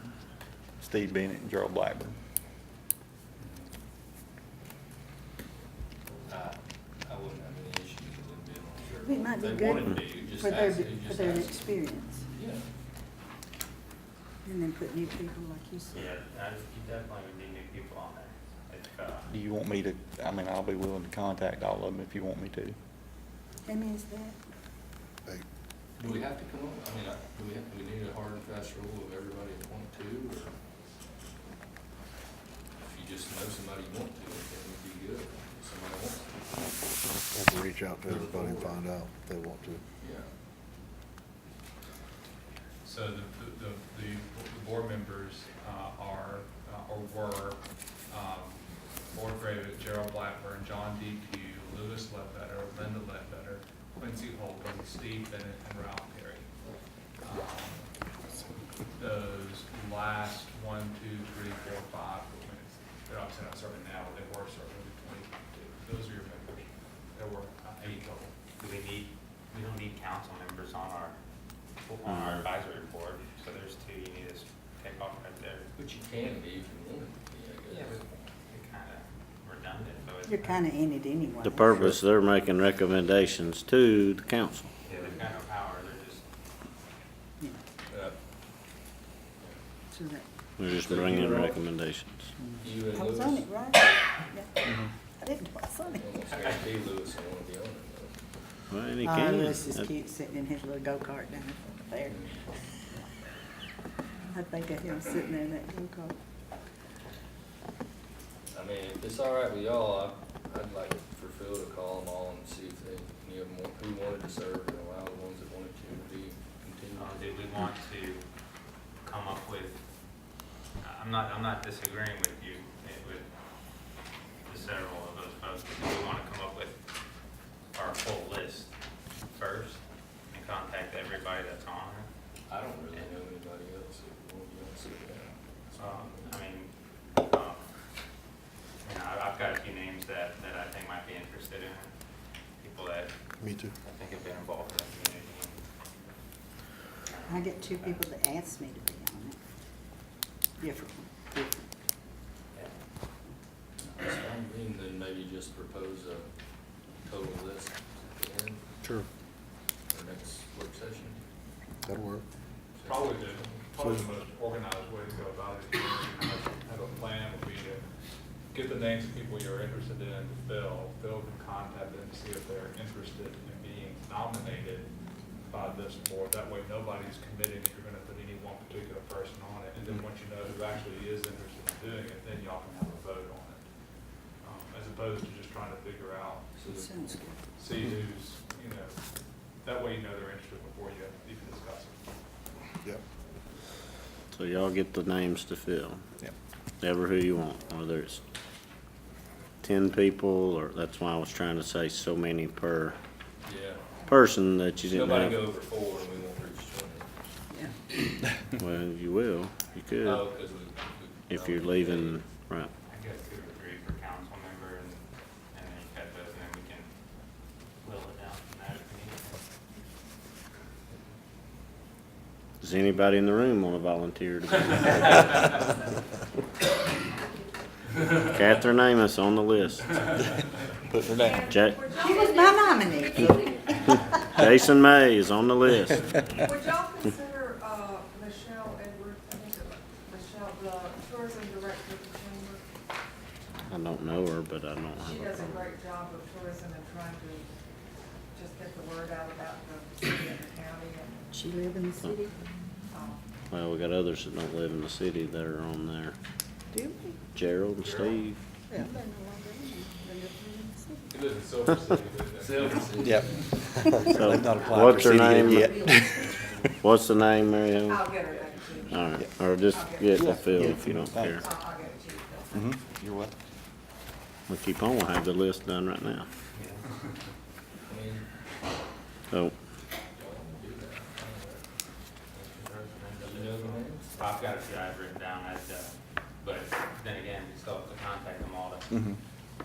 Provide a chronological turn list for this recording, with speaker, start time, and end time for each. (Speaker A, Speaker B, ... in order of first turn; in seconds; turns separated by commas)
Speaker A: 0.8-2.2, Speaker B: 3.4-3.7, Speaker B: 6.3-11.8, Speaker C: 9.0-12.3, Speaker B: 12.3-12.7, Speaker C: 14.4-16.0, Speaker D: 15.9-19.3, Speaker A: 19.3-22.8, Speaker C: 23.7-24.4, Speaker B: 26.0-30.6, Speaker B: 32.8-36.4, Speaker E: 37.3-39.8, Speaker B: 38.0-38.8, Speaker B: 40.0-40.3, Speaker F: 42.8-56.5, Speaker F: 57.2-57.9, Speaker F: 58.9-68.3, Speaker D: 68.6-71.2, Speaker D: 71.8-75.7, Speaker G: 72.1-72.4, Speaker B: 75.8-78.0, Speaker D: 77.7-80.6, Speaker C: 80.3-81.8, Speaker G: 81.4-84.7, Speaker D: 84.8-86.2, Speaker B: 84.9-85.2, Speaker B: 87.9-88.2, Speaker C: 89.9-90.2, Speaker G: 90.6-92.3, Speaker B: 90.7-91.6, Speaker B: 92.6-93.5, Speaker C: 92.9-94.5, Speaker C: 95.2-96.0, Speaker B: 96.0-98.2, Speaker G: 98.7-99.9, Speaker C: 99.0-102.1, Speaker B: 102.1-102.4, Speaker C: 104.3-106.2, Speaker B: 108.5-117.3, Speaker D: 116.9-118.2, Speaker D: 119.0-119.8, Speaker D: 120.8-123.3, Speaker D: 124.5-126.8, Speaker D: 127.7-128.7, Speaker D: 129.3-132.1, Speaker B: 132.5-136.4, Speaker F: 135.8-136.1, Speaker D: 136.2-137.6, Speaker D: 138.8-141.9, Speaker D: 142.6-143.1, Speaker E: 143.4-143.8, Speaker D: 143.8-145.6, Speaker D: 147.1-148.0, Speaker C: 147.3-149.4, Speaker C: 150.6-151.6, Speaker B: 153.8-156.3, Speaker B: 157.0-158.7, Speaker B: 159.9-161.2, Speaker E: 161.8-162.2, Speaker B: 162.7-163.7, Speaker F: 162.8-167.9, Speaker F: 168.5-174.9, Speaker F: 175.4-183.7, Speaker F: 184.4-186.5, Speaker B: 186.6-187.3, Speaker C: 186.8-187.4, Speaker F: 187.6-189.0, Speaker F: 189.6-192.1, Speaker G: 194.3-196.0, Speaker G: 196.8-198.2, Speaker G: 199.6-203.0, Speaker B: 203.4-204.0, Speaker G: 204.1-205.5, Speaker B: 204.9-207.3, Speaker G: 208.5-210.3, Speaker B: 210.0-212.2, Speaker G: 211.3-212.7, Speaker D: 212.8-216.9, Speaker D: 217.8-219.4, Speaker G: 222.6-225.4, Speaker G: 228.1-230.0, Speaker A: 230.8-231.5, Speaker H: 231.3-234.2, Speaker G: 231.4-231.9, Speaker C: 232.0-233.5, Speaker G: 234.3-236.4, Speaker H: 236.5-242.6, Speaker G: 243.7-245.7, Speaker H: 245.1-247.4, Speaker H: 248.3-251.2, Speaker C: 251.3-252.3, Speaker H: 252.9-253.2, Speaker G: 253.5-256.2, Speaker C: 256.7-257.2, Speaker G: 257.3-258.4, Speaker C: 258.7-261.1, Speaker F: 261.1-262.9, Speaker B: 262.4-263.9, Speaker A: 263.0-266.4, Speaker G: 264.0-266.2, Speaker G: 266.8-268.1, Speaker H: 268.0-268.5, Speaker B: 268.4-268.7, Speaker G: 268.9-271.5, Speaker A: 270.1-271.5, Speaker H: 271.4-272.6, Speaker A: 272.5-273.4, Speaker G: 274.5-276.3, Speaker D: 276.5-276.8, Speaker B: 277.9-278.3, Speaker B: 280.2-281.7, Speaker D: 282.3-289.0, Speaker B: 283.2-284.3, Speaker A: 288.9-289.2